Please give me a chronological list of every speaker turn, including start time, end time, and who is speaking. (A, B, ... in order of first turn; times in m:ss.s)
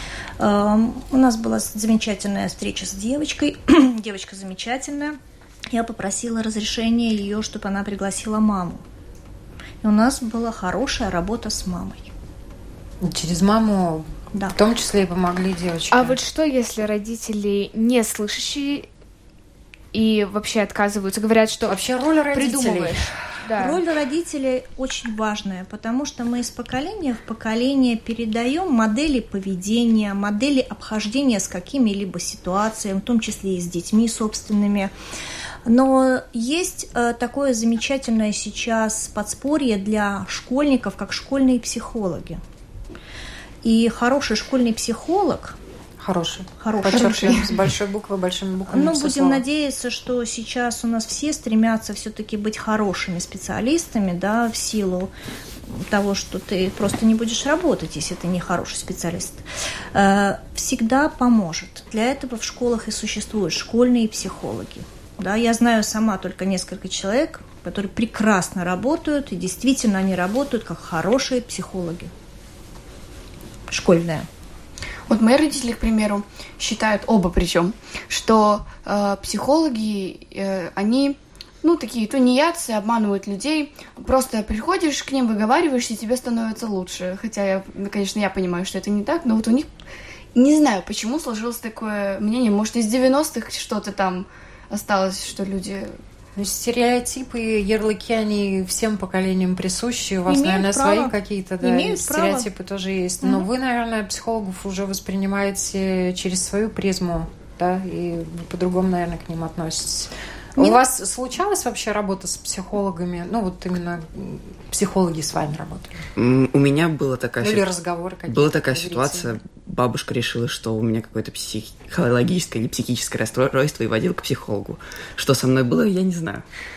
0:00.4-0:05.2 A
0:05.7-0:08.8 A
0:09.8-0:12.1 A
0:13.0-0:16.2 B
0:15.9-0:18.9 C
0:19.9-0:21.8 C
0:21.7-0:23.0 B
0:22.3-0:23.8 C
0:23.6-0:34.9 A
0:35.6-0:42.4 A
0:43.6-0:45.6 A
0:46.0-0:49.4 B
0:46.6-0:47.4 A
0:46.9-0:47.4 D
0:48.7-0:55.1 A
0:55.7-1:12.1 A
1:13.7-1:14.2 A
1:15.1-1:29.7 D
1:30.3-1:36.0 D
1:36.4-1:56.0 B
1:40.3-1:42.5 A
1:43.2-1:43.5 A
1:50.6-1:50.8 A
1:56.2-1:57.7 E
1:57.4-1:59.4 B
1:58.3-2:06.4 E